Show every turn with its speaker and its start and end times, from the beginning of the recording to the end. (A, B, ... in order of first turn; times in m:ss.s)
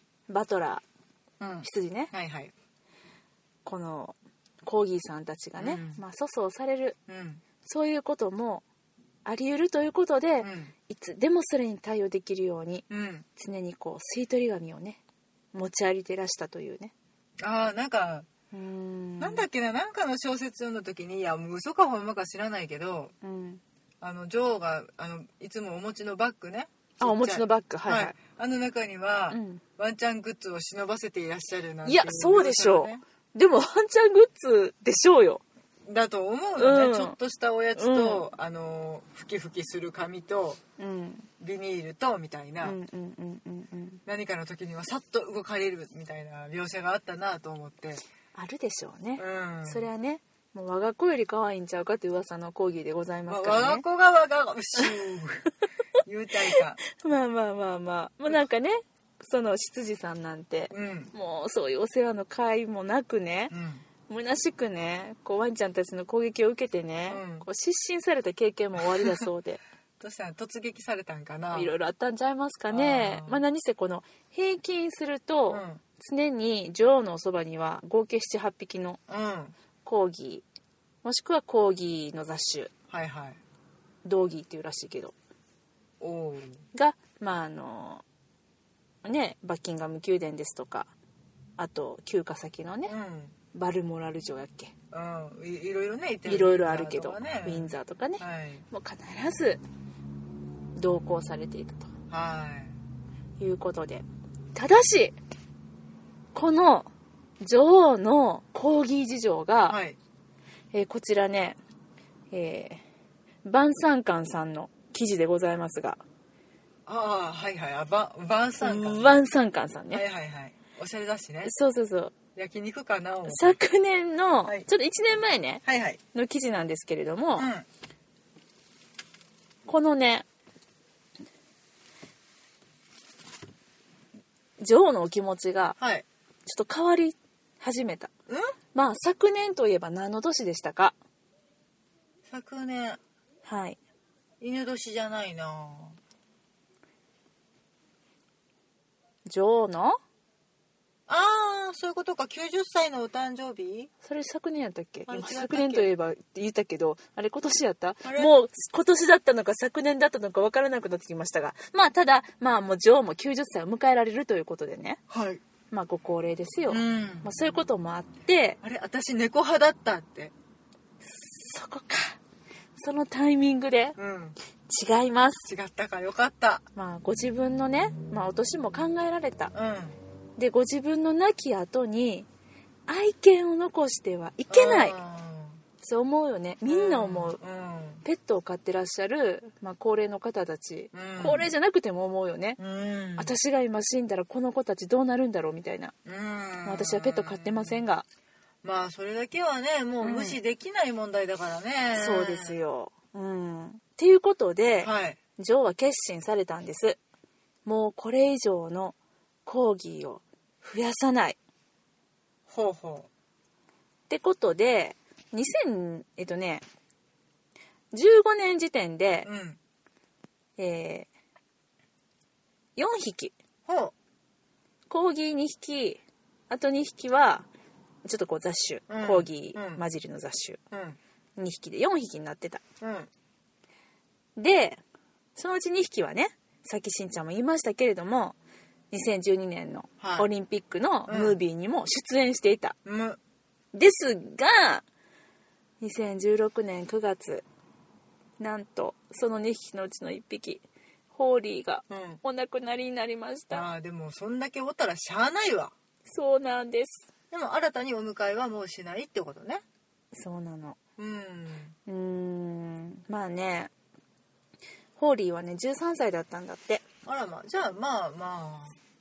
0:00.3-0:00.8 A
0:01.4-0:02.5 B
0:01.6-0:02.1 A
0:03.6-0:07.0 A
0:05.6-0:06.0 B
0:07.1-0:07.4 B
0:07.6-0:08.6 A
0:09.2-0:15.0 A
0:10.4-0:10.7 B
0:12.9-0:13.3 B
0:15.5-0:16.9 A
0:17.4-0:18.3 B
0:18.5-0:19.5 A
0:19.2-0:23.1 B
0:23.2-0:23.6 A
0:24.0-0:33.0 B
0:27.0-0:28.2 A
0:29.3-0:29.6 A
0:31.8-0:35.4 A
0:35.9-0:40.6 B
0:36.6-0:37.2 A
0:37.8-0:38.3 A
0:40.8-0:41.3 A
0:41.4-0:42.8 B
0:42.6-0:44.0 A
0:44.1-0:48.0 B
0:48.4-0:53.8 A
0:49.2-0:49.9 B
0:53.3-0:55.5 B
0:56.0-0:56.8 B
0:56.6-1:03.5 A
1:00.7-1:01.1 B
1:03.5-1:03.8 B
1:04.1-1:09.6 A
1:07.1-1:07.5 B
1:08.9-1:09.3 B
1:10.0-1:11.7 B
1:11.5-1:19.0 A
1:12.7-1:13.4 B
1:15.5-1:15.8 B
1:19.1-1:19.5 B
1:19.8-1:20.4 A
1:21.0-1:22.7 A
1:22.9-1:23.4 B
1:24.0-1:25.1 A
1:26.0-1:26.6 B
1:26.7-1:28.0 A
1:29.0-1:30.9 A
1:31.6-1:33.0 A
1:32.9-1:33.4 B
1:33.5-1:34.7 A
1:34.9-1:38.6 B
1:36.3-1:39.6 A
1:40.8-1:41.9 A
1:42.1-1:42.7 B
1:43.4-1:45.2 A
1:46.3-1:46.9 A
1:47.4-1:49.8 A
1:49.7-1:50.0 B
1:50.7-1:51.6 A
1:52.3-1:52.8 A
1:53.4-1:56.0 A
1:56.9-1:59.2 B
1:58.6-2:00.0 A
1:59.9-2:01.5 B
2:01.4-2:02.1 A
2:02.4-2:03.6 B
2:03.3-2:05.6 A
2:05.6-2:06.0 B
2:06.1-2:07.5 A
2:07.4-2:07.7 B
2:09.7-2:10.3 A
2:14.6-2:15.8 A
2:15.8-2:16.0 B
2:16.5-2:18.1 A
2:18.3-2:18.5 B
2:18.7-2:21.0 A
2:22.3-2:23.0 B
2:23.4-2:23.8 A
2:24.4-2:26.0 B
2:29.3-2:30.0 A
2:31.1-2:33.9 B
2:34.0-2:45.0 A
2:35.1-2:35.9 B
2:38.0-2:38.3 B
2:45.1-2:45.4 B
2:45.7-2:48.6 A
2:46.7-2:47.3 B
2:48.6-2:50.3 B
2:51.0-2:52.2 A
2:52.8-2:54.0 A
2:54.0-2:54.4 B
2:54.7-2:55.5 A
2:55.4-2:56.6 B
2:56.8-2:59.5 A
2:59.5-3:00.0 B
3:00.4-3:02.3 A
3:02.9-3:05.0 A
3:04.5-3:05.6 B
3:05.8-3:07.4 A
3:06.7-3:08.0 B
3:08.0-3:12.6 A
3:10.9-3:11.5 B
3:12.6-3:13.3 B
3:13.2-3:15.9 A
3:16.0-3:17.8 B
3:16.6-3:18.0 A
3:18.6-3:22.6 B
3:20.0-3:20.4 A
3:21.9-3:27.0 A
3:24.8-3:25.2 B
3:27.7-3:31.4 A
3:32.5-3:33.1 B
3:34.1-3:36.6 A
3:37.9-3:39.3 A
3:39.2-3:39.6 B
3:40.6-3:41.1 A
3:42.8-3:43.3 A
3:43.7-3:43.9 B
3:44.9-3:47.5 A
3:48.0-3:50.6 A
3:48.9-3:49.8 B
3:50.7-3:51.0 B
3:51.4-3:52.6 A
3:52.8-3:53.1 B
3:54.4-3:54.8 A
3:55.4-3:58.4 A
3:58.9-4:02.8 A
4:00.0-4:00.3 B
4:01.1-4:01.4 B
4:02.8-4:03.2 B
4:03.7-4:04.8 A
4:05.8-4:07.4 A
4:08.4-4:10.6 A
4:11.1-4:13.7 A
4:11.9-4:12.2 B
4:13.5-4:15.7 B
4:16.1-4:17.1 A
4:17.3-4:19.6 B
4:20.1-4:20.8 A
4:21.0-4:21.8 B
4:21.9-4:23.7 A
4:25.0-4:26.8 A
4:27.0-4:28.8 B